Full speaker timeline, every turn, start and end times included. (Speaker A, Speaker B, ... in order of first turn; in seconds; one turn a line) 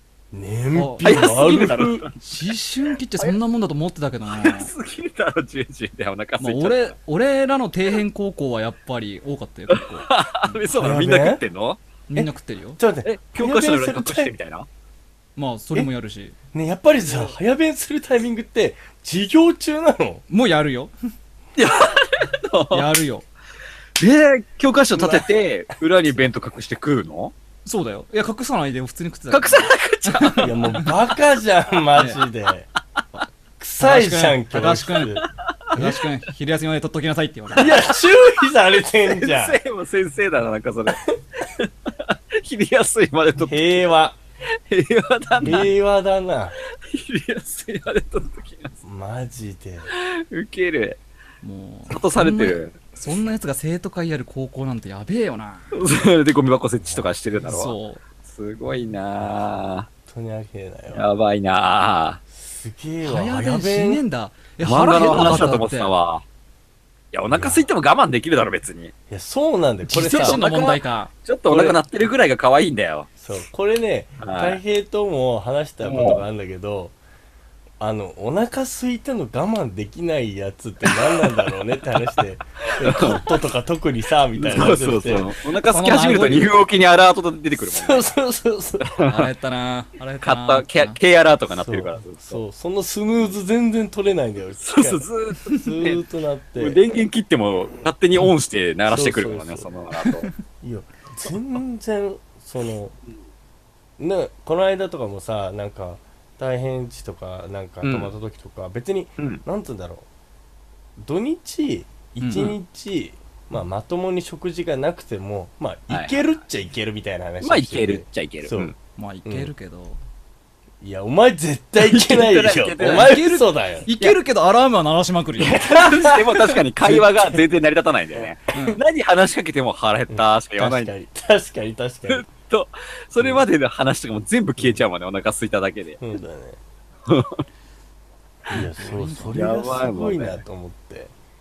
Speaker A: 0.3-2.1
Speaker B: 0.8-4.7
Speaker C: 1.0-2.1
Speaker C: 4.3-6.9
Speaker B: 6.4-10.1
Speaker C: 9.7-11.8
Speaker A: 10.7-11.4
Speaker B: 12.1-12.8
Speaker A: 12.8-14.3
Speaker C: 13.1-14.7
Speaker B: 15.4-16.4
Speaker A: 16.5-20.2
Speaker C: 17.1-17.4
Speaker B: 20.3-20.9
Speaker C: 21.6-22.9
Speaker B: 22.7-23.3
Speaker C: 24.0-27.3
Speaker A: 25.0-25.3
Speaker B: 27.6-30.9
Speaker C: 29.3-30.8
Speaker A: 30.4-32.7
Speaker A: 33.6-35.2
Speaker B: 33.8-35.2
Speaker B: 35.7-37.8
Speaker A: 35.8-36.0
Speaker A: 37.6-39.6
Speaker C: 37.6-38.5
Speaker C: 39.0-43.9
Speaker A: 43.4-44.2
Speaker C: 44.7-45.7
Speaker A: 45.4-46.6
Speaker B: 45.4-45.7
Speaker C: 46.7-48.8
Speaker A: 48.8-49.9
Speaker C: 49.9-51.0
Speaker B: 51.4-55.9
Speaker C: 51.9-52.8
Speaker C: 55.7-59.9
Speaker A: 56.8-57.1
Speaker B: 57.5-58.0
Speaker A: 59.2-59.5
Speaker A: 60.0-61.0
Speaker C: 60.9-62.2
Speaker A: 62.3-64.0
Speaker B: 63.0-65.9
Speaker C: 64.6-66.2
Speaker C: 67.1-68.9
Speaker A: 67.3-67.7
Speaker A: 69.1-70.4
Speaker B: 69.9-71.8
Speaker C: 70.0-73.1
Speaker A: 73.2-77.0
Speaker C: 74.2-74.6
Speaker C: 75.8-76.2
Speaker A: 77.8-85.3
Speaker C: 80.8-81.4
Speaker C: 82.8-83.3
Speaker C: 84.4-88.1
Speaker B: 85.7-86.5
Speaker A: 87.6-88.9
Speaker C: 88.8-89.3
Speaker B: 89.0-91.0
Speaker C: 90.2-92.4
Speaker A: 91.5-96.8
Speaker C: 94.6-96.0
Speaker C: 96.6-100.3
Speaker A: 98.8-99.7
Speaker B: 100.1-100.4
Speaker A: 100.6-103.0
Speaker A: 104.0-110.0
Speaker C: 107.8-108.1
Speaker A: 111.0-118.7
Speaker B: 112.2-112.6
Speaker C: 115.9-116.2
Speaker C: 117.4-118.7
Speaker B: 119.0-120.0
Speaker A: 119.2-119.5
Speaker A: 120.8-123.9
Speaker C: 121.8-123.1
Speaker B: 122.9-126.5
Speaker C: 125.5-130.9
Speaker A: 125.5-127.4
Speaker B: 128.5-128.8
Speaker A: 130.1-132.3
Speaker C: 132.1-136.0
Speaker A: 133.2-133.4
Speaker A: 136.0-136.6
Speaker C: 137.1-137.4
Speaker A: 138.5-141.1
Speaker B: 138.5-139.4
Speaker C: 139.3-140.4